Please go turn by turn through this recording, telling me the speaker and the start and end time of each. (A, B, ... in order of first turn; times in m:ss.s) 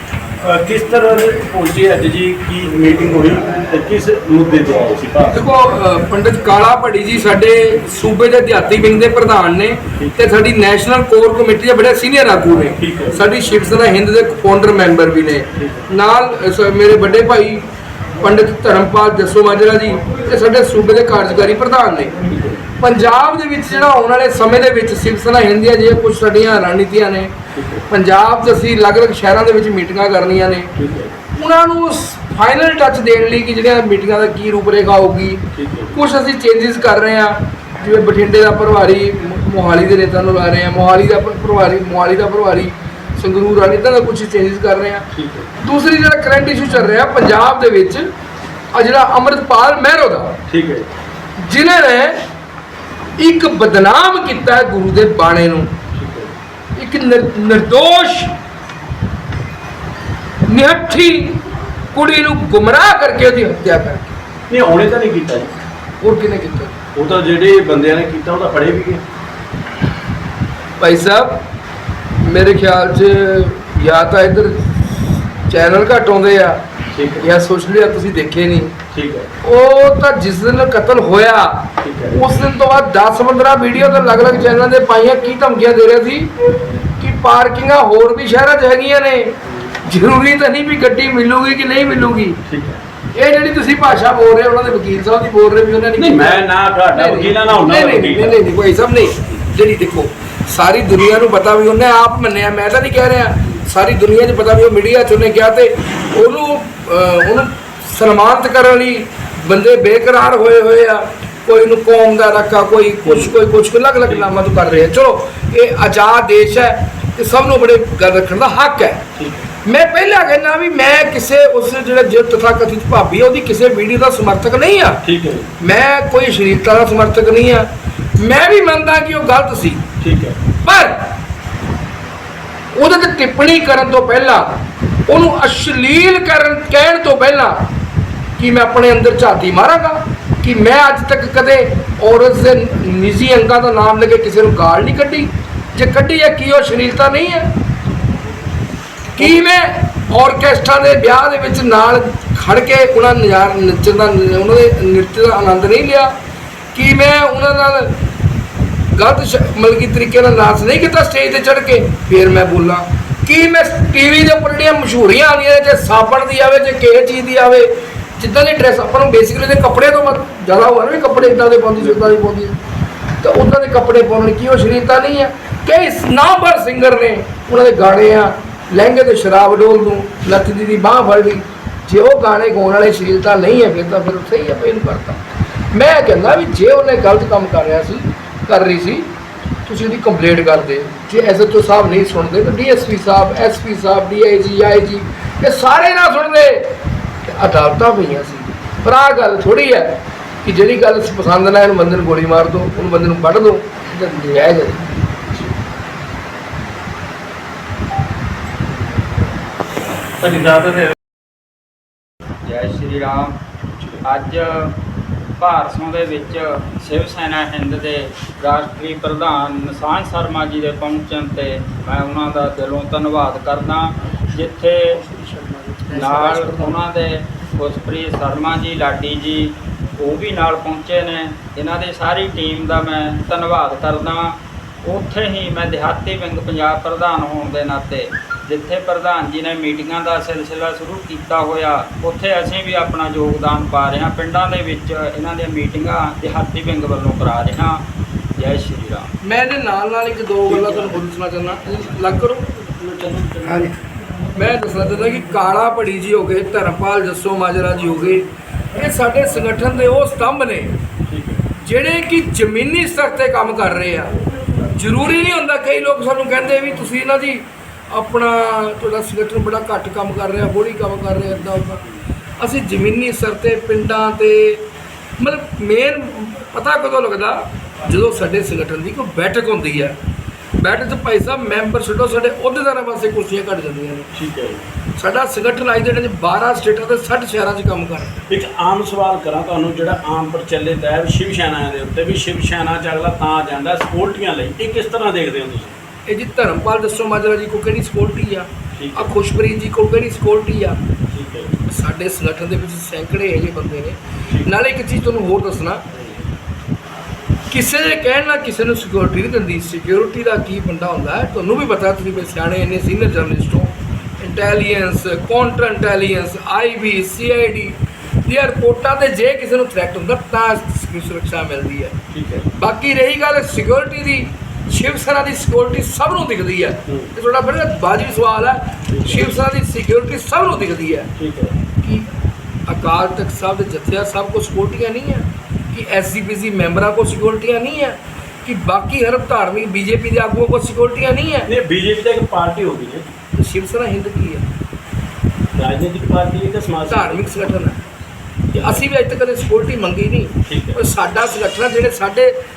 0:00.4-0:05.4 A
0:05.3-0:17.6 B
0:10.0-0:10.3 A
0:12.8-0:13.2 A
0:15.6-0:15.9 A
0:18.2-0:22.1 B
0:22.2-0:22.6 A
0:22.8-0:27.3 B
0:27.5-0:27.9 A
0:27.9-0:30.7 B
0:30.7-0:31.2 A
0:31.3-0:45.1 B
0:35.5-0:36.0 A
0:45.1-0:45.5 A
0:45.6-0:48.1 B
0:48.7-0:50.4 B
0:50.5-0:50.9 A
0:51.4-0:52.3 B
0:53.2-0:55.7 B
0:55.9-0:56.4 A
0:56.8-0:58.4 B
1:00.5-1:04.1 B
1:04.5-1:05.5 A
1:06.0-1:06.8 B
1:06.9-1:09.0 A
1:10.8-1:11.4 B
1:12.2-1:14.9 B
1:15.5-1:16.6 B
1:16.9-1:17.2 A
1:17.2-1:18.8 B
1:18.9-1:19.3 A
1:19.4-1:26.3 B
1:21.8-1:22.4 A
1:27.0-1:32.4 B
1:32.5-1:32.8 A
1:33.1-1:59.0 B
1:36.0-1:38.4 A
1:53.0-1:53.3 A
1:59.2-1:59.5 A
1:59.6-2:05.0 B
2:05.0-2:05.5 A
2:05.6-2:09.8 B
2:10.0-2:10.4 A
2:10.6-2:11.2 B
2:12.7-2:17.7 B
2:18.4-2:27.5 B
2:29.1-2:36.1 B
2:36.7-2:38.0 B
2:38.9-2:52.6 B
2:53.2-3:05.2 B
3:05.7-3:09.1 B
3:09.6-3:24.9 B
3:30.2-3:30.9 A
3:32.4-3:33.4 C
3:34.0-3:34.8 C
3:35.4-3:45.0 C
3:44.9-3:46.8 B
3:45.9-4:09.1 C
4:09.2-4:12.5 B
4:10.5-4:10.9 A
4:12.6-4:13.7 A
4:14.4-4:20.8 B
4:21.1-4:21.4 A
4:21.6-4:31.8 B
4:32.4-4:34.6 B
4:35.2-4:39.9 B
4:40.6-4:44.1 B
4:44.1-4:44.7 A
4:45.0-4:48.2 B
4:48.3-4:55.8 A
4:56.1-5:00.8 B
4:58.7-4:59.1 A
5:01.1-5:01.6 A
5:01.7-5:05.8 B
5:07.5-5:22.0 B
5:22.1-5:22.5 A
5:22.6-5:31.1 B
5:26.9-5:27.1 A
5:28.9-5:29.3 A
5:31.2-5:31.6 A
5:31.8-5:32.1 B
5:32.7-5:41.5 B
5:41.4-5:43.1 A
5:43.4-5:44.4 B
5:45.5-5:47.4 A
5:46.9-5:47.8 B
5:48.5-5:52.4 B
5:48.5-5:48.8 A
5:50.4-5:50.8 A